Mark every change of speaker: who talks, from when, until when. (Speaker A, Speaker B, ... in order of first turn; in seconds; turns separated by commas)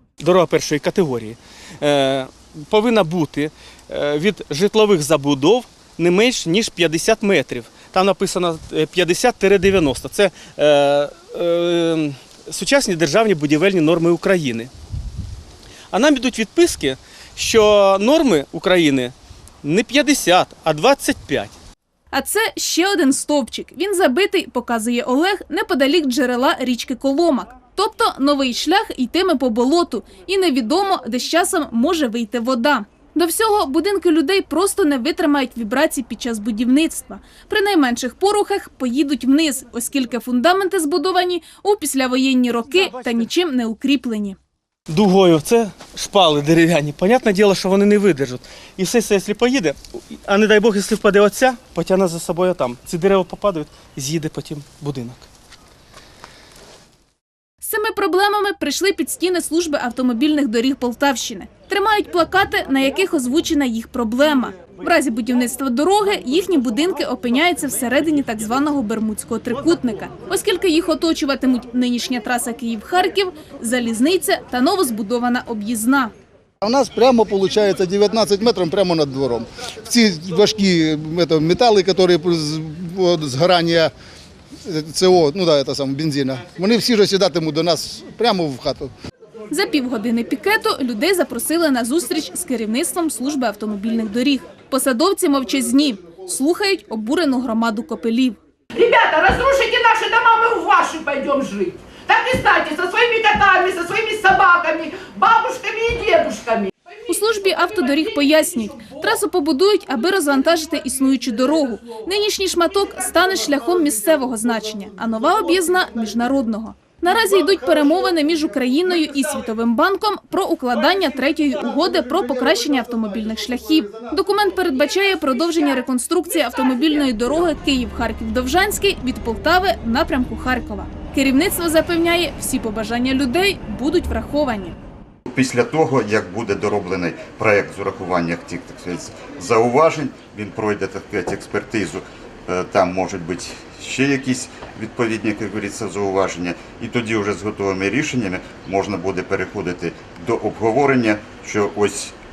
Speaker A: 0.2-14.7, Speaker A: 15.9-21.6, Speaker B: 22.1-44.4, Speaker A: 42.7-43.3, Speaker A: 44.9-55.3, Speaker B: 57.6-76.1, Speaker C: 76.6-83.9, Speaker C: 84.6-88.9, Speaker B: 89.5-98.4, Speaker D: 98.7-109.0, Speaker B: 107.1-134.8, Speaker C: 115.2-115.8, Speaker C: 117.1-119.2, Speaker C: 120.8-124.4, Speaker E: 135.3-152.1